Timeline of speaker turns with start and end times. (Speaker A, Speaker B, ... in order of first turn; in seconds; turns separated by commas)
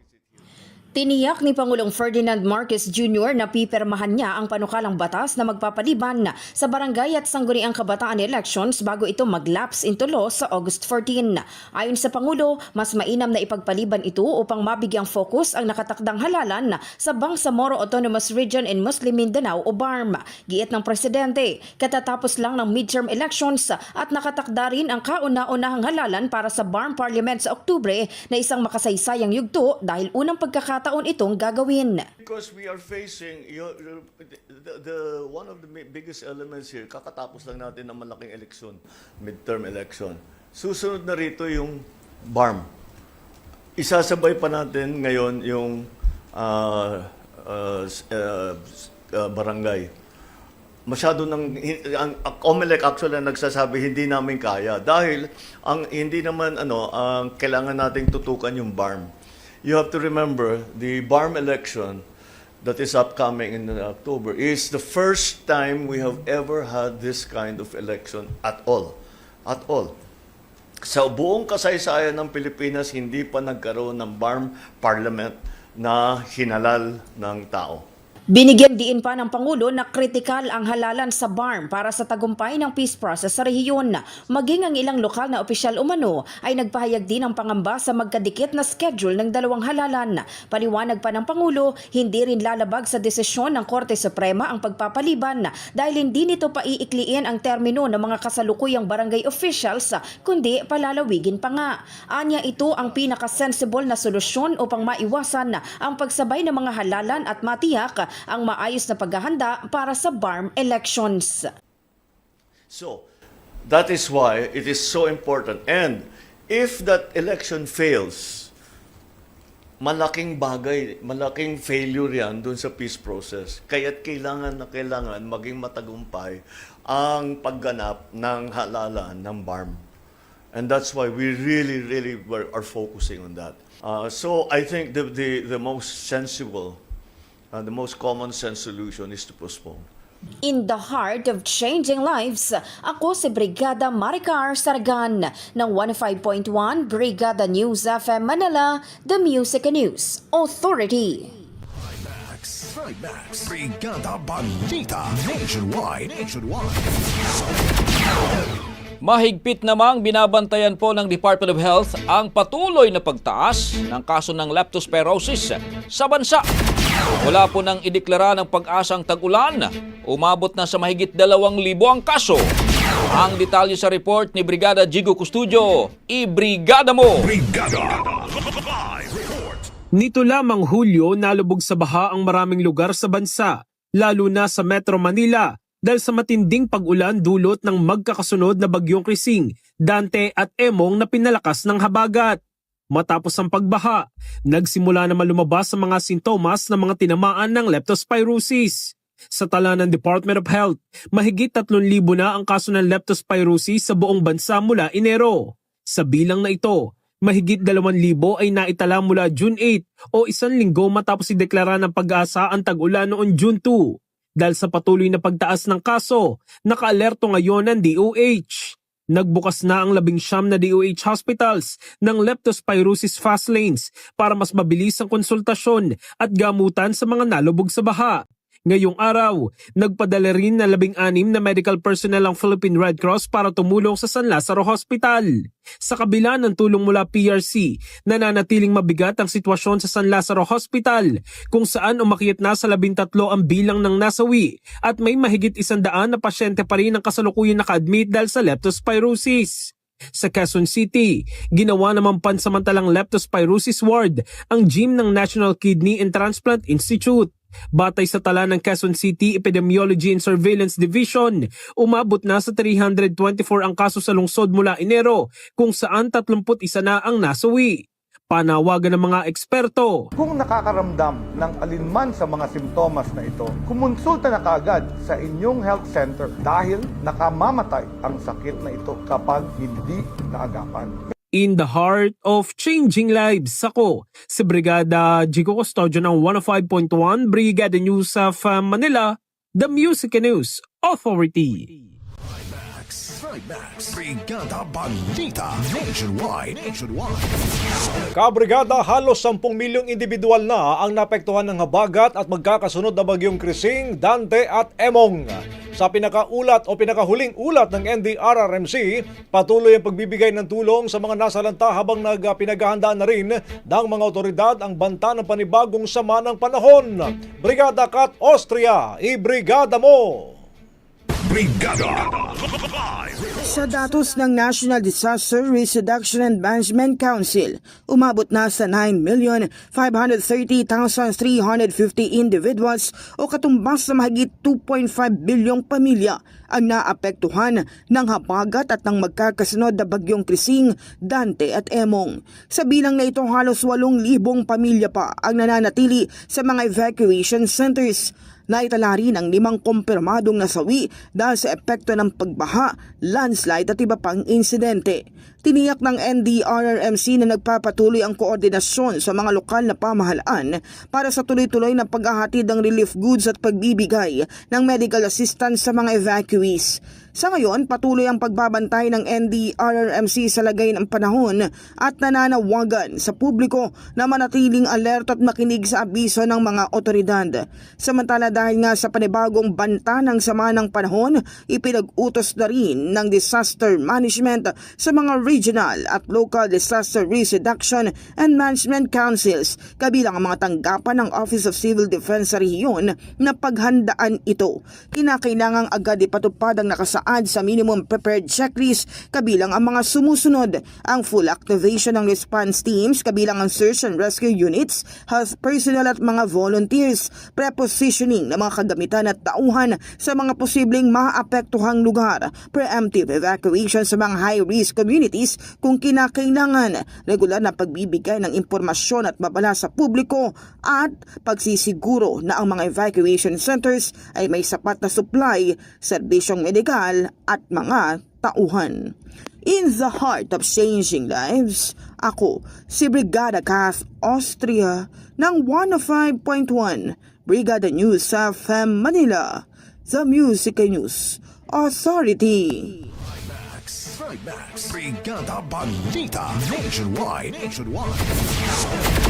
Speaker A: 1.0-32.0, Speaker B: 32.2-42.7, Speaker B: 43.8-49.9, Speaker B: 50.9-59.1, Speaker B: 59.6-62.0, Speaker B: 62.6-69.9, Speaker B: 70.8-77.8, Speaker A: 78.3-111.5, Speaker B: 112.7-113.0, Speaker B: 113.7-118.5, Speaker B: 119.8-129.8, Speaker B: 130.5-136.8, Speaker B: 137.5-139.9, Speaker A: 140.4-151.3, Speaker C: 151.8-157.1, Speaker D: 159.0-166.4, Speaker D: 167.2-172.5, Speaker D: 173.2-177.3, Speaker C: 177.2-178.3, Speaker C: 178.9-179.6, Speaker E: 180.0-192.4, Speaker E: 192.9-235.3, Speaker E: 235.8-270.1, Speaker F: 270.2-281.0, Speaker E: 281.4-291.8, Speaker C: 292.3-297.5, Speaker G: 298.2-320.4, Speaker C: 321.2-322.4, Speaker C: 323.0-323.4, Speaker H: 323.4-428.9, Speaker H: 429.4-442.8, Speaker C: 443.0-448.4